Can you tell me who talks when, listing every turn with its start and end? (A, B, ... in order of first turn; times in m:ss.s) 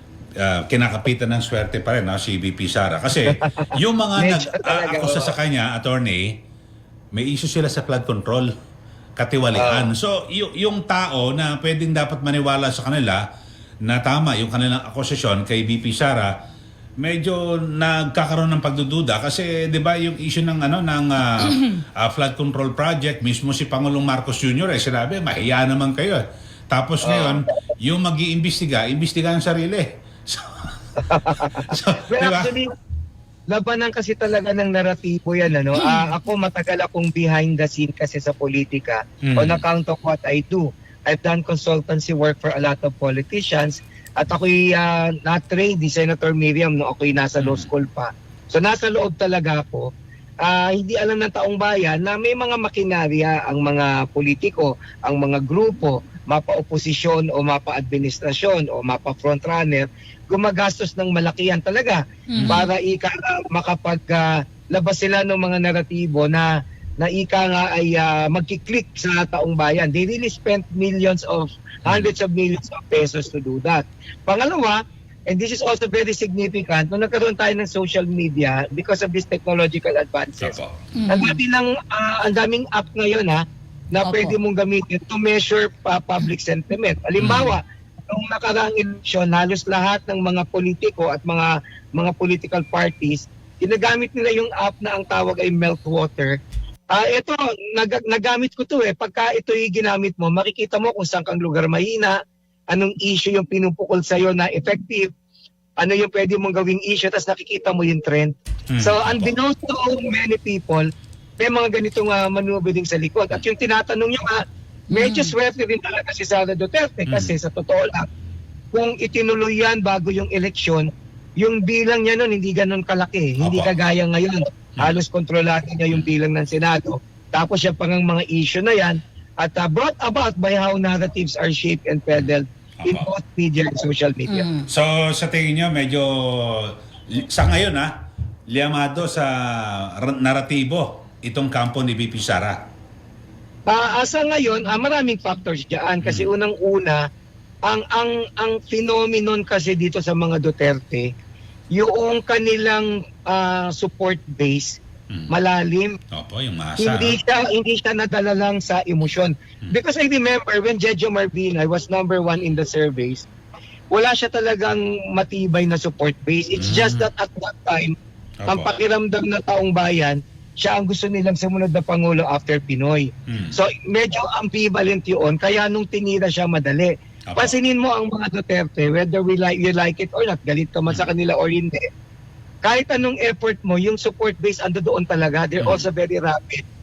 0:00.4-0:06.3 A
0:03.2-0:05.4 B
0:07.1-0:08.5 A
0:09.2-0:13.2 A
0:09.5-0:09.9 B
0:13.8-0:16.3 A
0:17.0-0:30.7 A
0:27.0-0:27.5 B
0:31.0-0:32.7 B
0:31.4-0:32.5 A
0:33.5-0:49.8 B
0:35.7-0:36.1 C
0:39.2-0:39.6 A
0:47.4-0:47.7 A
0:50.4-1:06.5 B
1:02.3-1:02.7 C
1:07.0-1:20.6 B
1:11.8-1:12.1 A
1:20.4-1:20.9 A
1:21.0-1:21.4 C
1:21.1-1:23.4 B
1:23.9-1:36.4 B
1:24.0-1:24.4 C
1:27.2-1:27.5 A
1:36.9-1:42.1 B
1:42.7-1:45.1 B
1:45.8-1:50.8 B
1:48.7-1:49.3 A
1:51.4-1:58.1 B
1:54.9-1:55.3 C
1:57.1-1:57.3 A
1:58.7-2:00.9 B
2:01.4-2:14.5 B
2:03.4-2:03.7 A
2:12.8-2:13.1 A
2:14.3-2:14.7 C
2:14.7-2:17.9 A
2:18.5-2:22.6 A
2:23.7-2:27.0 B
2:26.0-2:26.3 A
2:27.6-2:31.1 B
2:31.7-2:34.8 B
2:35.3-2:36.0 B
2:36.1-2:37.2 A
2:36.8-2:43.2 B
2:43.9-2:47.9 B
2:46.6-2:47.1 A
2:48.4-2:48.8 A
2:48.5-3:01.8 B
2:53.3-2:53.6 A
2:57.3-2:57.6 A
3:02.6-3:06.6 B
3:05.6-3:05.8 A